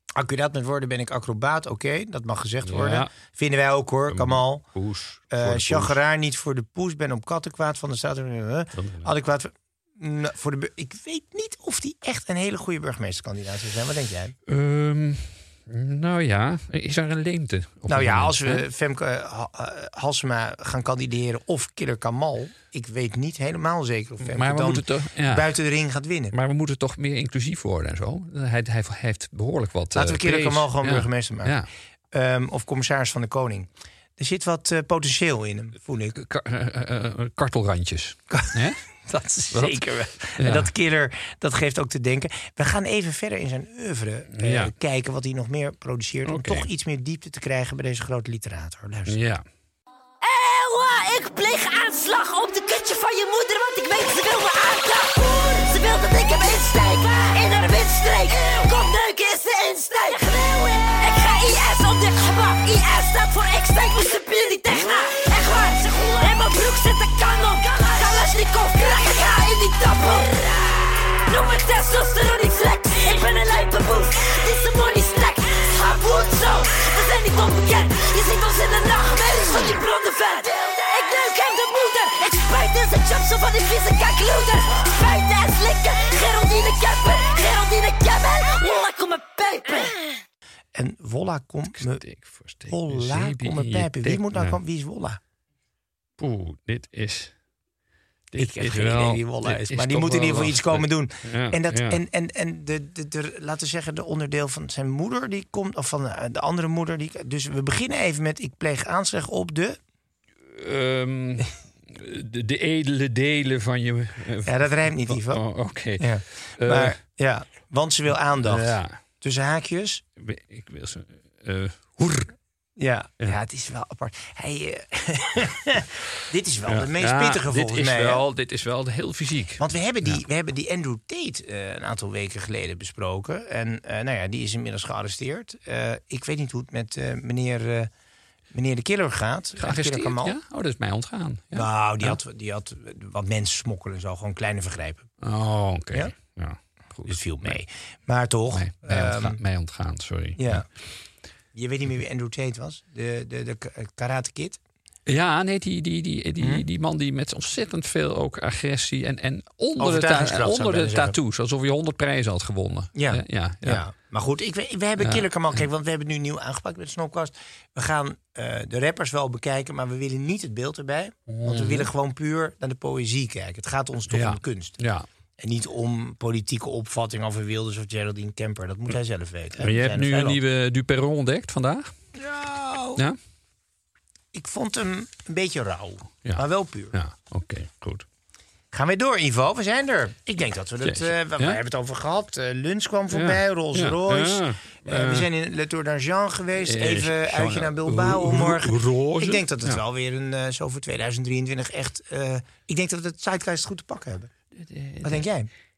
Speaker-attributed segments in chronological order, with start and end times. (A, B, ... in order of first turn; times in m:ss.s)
0:00.2-0:04.6 A
0:02.6-0:03.1 B
0:04.1-0:06.0 B
0:05.3-0:14.4 A
0:08.7-0:09.1 B
0:14.5-0:18.7 B
0:17.9-0:26.3 A
0:24.2-0:25.5 B
0:26.3-0:31.7 B
0:29.9-0:31.6 A
0:32.1-0:36.2 A
0:36.1-0:38.8 B
0:38.3-0:49.2 A
0:39.5-0:39.8 B
0:40.4-0:40.7 B
0:44.3-0:44.7 B
0:46.2-0:46.7 B
0:49.1-0:49.4 B
0:50.2-1:10.4 C
1:11.2-1:29.9 C
1:30.7-1:32.0 A
1:31.6-1:34.6 B
1:32.6-1:35.2 A
1:36.2-1:37.4 B
1:38.3-1:42.0 B
1:38.4-1:49.8 A
1:50.4-1:57.0 B
1:54.4-2:00.0 A
1:58.3-1:59.0 B
2:00.2-2:02.3 B
2:02.8-2:08.2 A
2:06.6-2:10.2 B
2:09.6-2:17.9 A
2:18.5-2:20.4 A
2:19.6-2:22.2 B
2:21.5-2:25.1 A
2:25.2-2:27.6 B
2:27.0-2:29.4 A
2:28.5-2:30.7 B
2:30.4-2:30.6 A
2:31.5-2:34.6 A
2:35.0-2:43.8 B
2:36.4-2:36.6 A
2:39.8-2:41.1 A
2:42.9-2:54.8 A
2:45.0-2:45.6 B
2:51.3-2:51.9 B
2:54.1-2:55.0 B
2:55.4-3:00.4 A
2:59.6-3:01.9 B
3:02.1-3:03.0 A
3:04.3-3:06.9 A
3:06.2-3:08.0 B
3:08.7-3:24.3 A
3:10.8-3:11.6 B
3:13.1-3:15.3 B
3:16.6-3:19.8 B
3:24.5-3:25.2 B
3:25.0-3:25.5 A